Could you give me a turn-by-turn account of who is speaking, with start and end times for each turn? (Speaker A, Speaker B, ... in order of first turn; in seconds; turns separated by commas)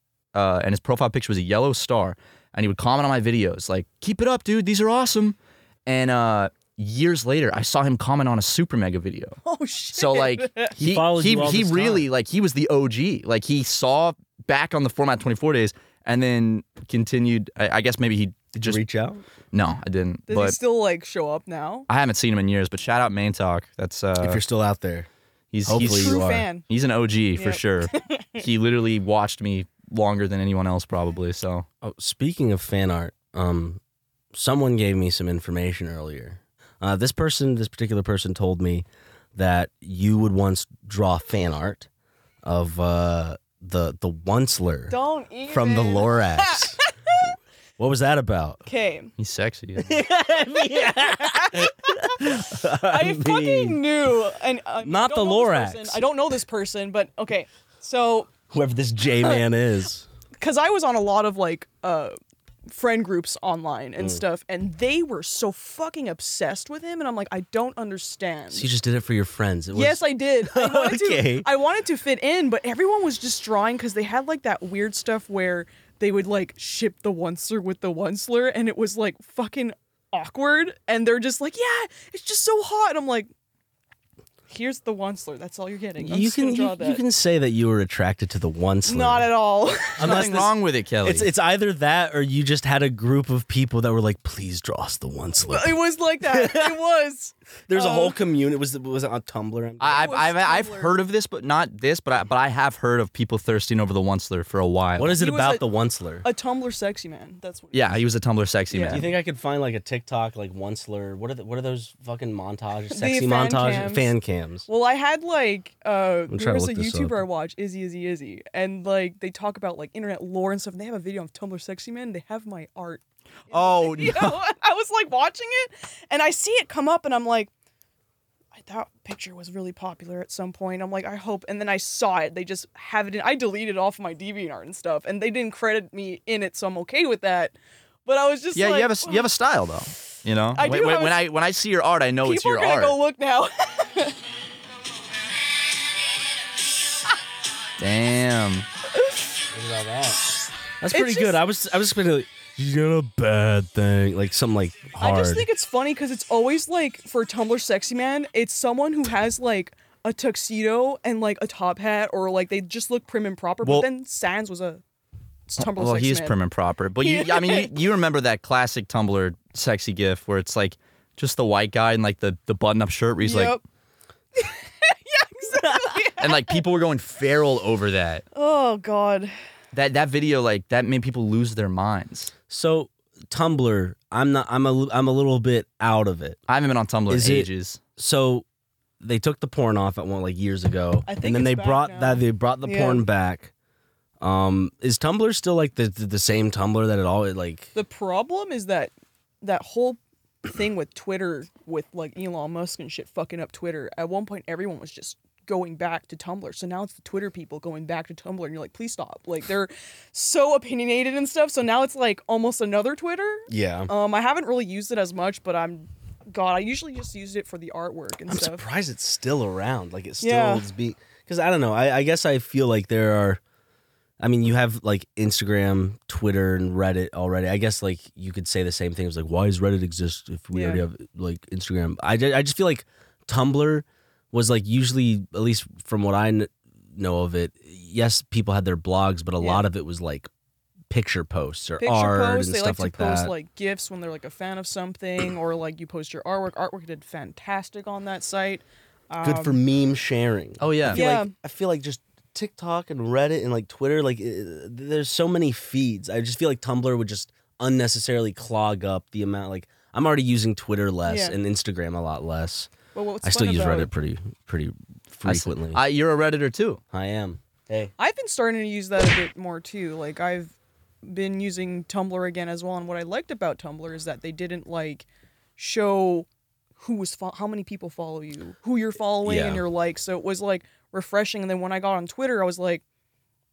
Speaker A: 0.3-9.4, Speaker B: 9.4-10.8, Speaker A: 9.9-18.8, Speaker C: 10.8-12.1, Speaker C: 18.6-19.2, Speaker A: 19.5-20.6, Speaker B: 20.3-21.9, Speaker A: 21.9-24.4, Speaker C: 24.2-25.1, Speaker A: 25.5-31.6, Speaker C: 25.7-26.5, Speaker B: 25.7-26.6, Speaker B: 27.4-28.4, Speaker C: 31.8-33.8, Speaker C: 34.3-41.9, Speaker C: 42.4-46.8, Speaker B: 44.9-47.3, Speaker C: 47.8-48.6, Speaker B: 48.7-49.1, Speaker A: 49.2-50.0, Speaker C: 49.8-53.8, Speaker B: 50.7-58.3, Speaker C: 54.8-56.1, Speaker C: 58.5-60.1, Speaker B: 60.4-62.2, Speaker B: 62.7-68.7, Speaker C: 64.0-64.2, Speaker C: 68.5-71.5, Speaker B: 69.7-83.3, Speaker B: 84.5-87.0, Speaker C: 86.0-89.3, Speaker B: 88.9-90.5, Speaker C: 90.0-90.5, Speaker A: 90.0-91.3, Speaker C: 91.0-96.8, Speaker B: 95.5-98.2, Speaker C: 97.7-100.1, Speaker A: 99.8-105.2, Speaker B: 100.0-101.0, Speaker C: 105.0-106.3, Speaker B: 105.2-105.6, Speaker B: 106.2-108.1, Speaker A: 107.7-109.1, Speaker B: 108.7-109.1, Speaker C: 108.9-114.7, Speaker B: 112.9-114.1, Speaker B: 114.7-127.5, Speaker C: 116.3-117.2, Speaker A: 123.5-124.4, Speaker B: 128.5-137.6, Speaker B: 138.1-139.3, Speaker A: 138.6-143.0, Speaker B: 140.6-141.2, Speaker B: 142.2-144.2, Speaker A: 147.8-148.7, Speaker C: 149.5-155.5, Speaker B: 150.9-151.4, Speaker B: 155.0-164.8, Speaker B: 165.5-166.4, Speaker A: 165.6-173.6, Speaker B: 167.0-167.7, Speaker B: 173.2-173.6, Speaker B: 174.4-176.6, Speaker A: 176.2-178.2, Speaker B: 178.3-179.3, Speaker A: 179.7-182.3, Speaker C: 182.5-186.4, Speaker A: 186.5-187.8, Speaker C: 187.1-188.4, Speaker C: 189.0-193.5, Speaker B: 191.1-193.0, Speaker C: 194.2-197.7, Speaker B: 197.8-218.6, Speaker C: 213.5-213.9, Speaker C: 218.3-223.4, Speaker B: 220.2-220.7, Speaker C: 224.2-240.3, Speaker B: 230.5-230.8, Speaker B: 239.4-239.7, Speaker C: 240.9-243.3, Speaker B: 241.8-249.6, Speaker C: 249.2-262.7, Speaker A: 250.6-251.0, Speaker B: 250.9-251.3, Speaker B: 261.1-261.4, Speaker B: 262.9-263.9, Speaker C: 263.2-265.8, Speaker A: 265.2-266.8, Speaker C: 266.9-267.9, Speaker B: 268.0-275.1, Speaker B: 275.6-276.3, Speaker B: 276.8-282.8, Speaker C: 279.2-279.6